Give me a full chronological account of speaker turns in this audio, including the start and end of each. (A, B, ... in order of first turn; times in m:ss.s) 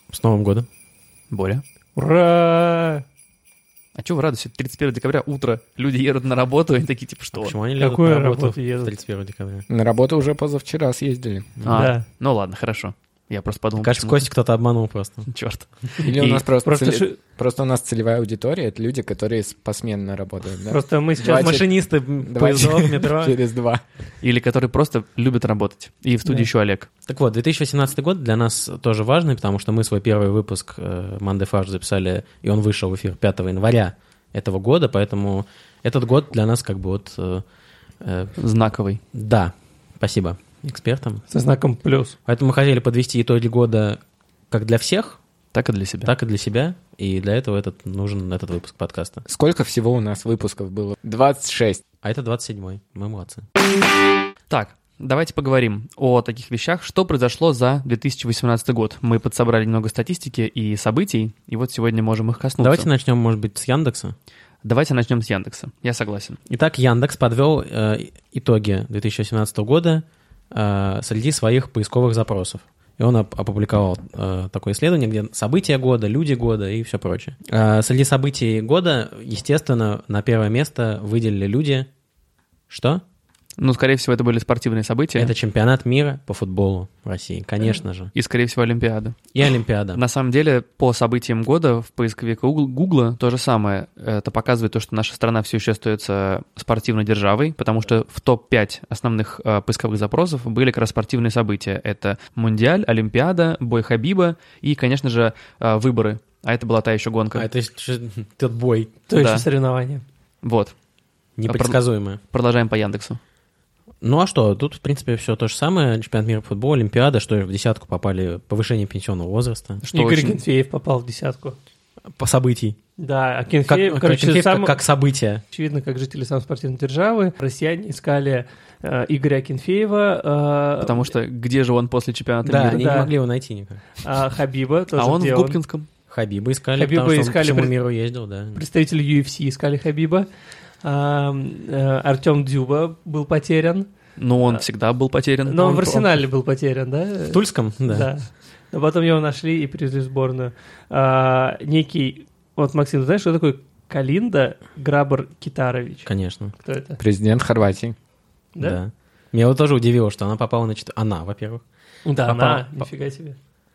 0:00.1-0:00.7 A
0:01.3-0:01.6 B
0:02.0-0:03.0 C
0:04.0-0:07.6 B
0:07.4-0:09.7 A
0:07.8-0:08.9 C
0:09.7-0:11.5 D
0:11.6-0:14.2 B
0:11.7-0:12.0 C
0:13.8-0:15.3 A
0:15.3-0:16.4 B
0:16.0-0:23.8 D
0:16.2-0:17.2 C
0:20.7-0:21.6 C
0:21.2-0:23.4 A
0:24.2-0:26.9 B
0:27.1-0:37.4 A
0:38.0-0:38.3 A
0:38.4-0:39.0 B
0:39.1-0:41.2 A
0:41.3-0:42.2 C
0:42.3-0:44.0 A
0:44.5-0:45.2 A
0:45.5-0:46.1 B
0:46.0-0:49.2 A
0:49.3-0:51.8 D
0:52.0-0:53.5 A
0:54.5-1:02.9 B
1:02.6-1:04.2 A
1:04.6-1:06.4 B
1:06.5-1:21.9 A
1:22.7-1:23.0 A
1:23.6-1:25.3 B
1:25.2-1:28.1 A
1:28.1-1:29.2 B
1:29.3-1:30.0 A
1:29.9-1:47.5 B
1:47.3-1:49.0 A
1:49.1-1:50.0 C
1:49.1-1:49.5 B
1:50.4-1:50.7 B
1:51.4-1:52.2 A
1:51.5-1:53.2 B
1:54.0-1:59.8 A
1:59.8-2:00.4 B
1:59.9-2:01.6 C
2:02.2-2:02.8 A
2:03.0-2:04.8 C
2:03.7-2:05.4 A
2:05.5-2:11.1 C
2:10.8-2:13.0 B
2:12.4-2:13.8 A
2:12.6-2:13.1 C
2:14.0-2:15.6 C
2:15.0-2:15.9 B
2:16.1-2:18.6 A
2:16.8-2:17.8 C
2:18.6-2:20.3 C
2:20.8-2:23.9 C
2:24.2-2:26.2 B
2:25.4-2:36.1 C
2:27.3-2:28.1 A
2:36.1-2:36.5 A
2:36.6-2:37.0 C
2:37.0-2:38.0 D
2:38.6-2:38.8 C
2:38.6-2:41.6 A
2:42.0-2:43.4 C
2:42.2-2:42.9 A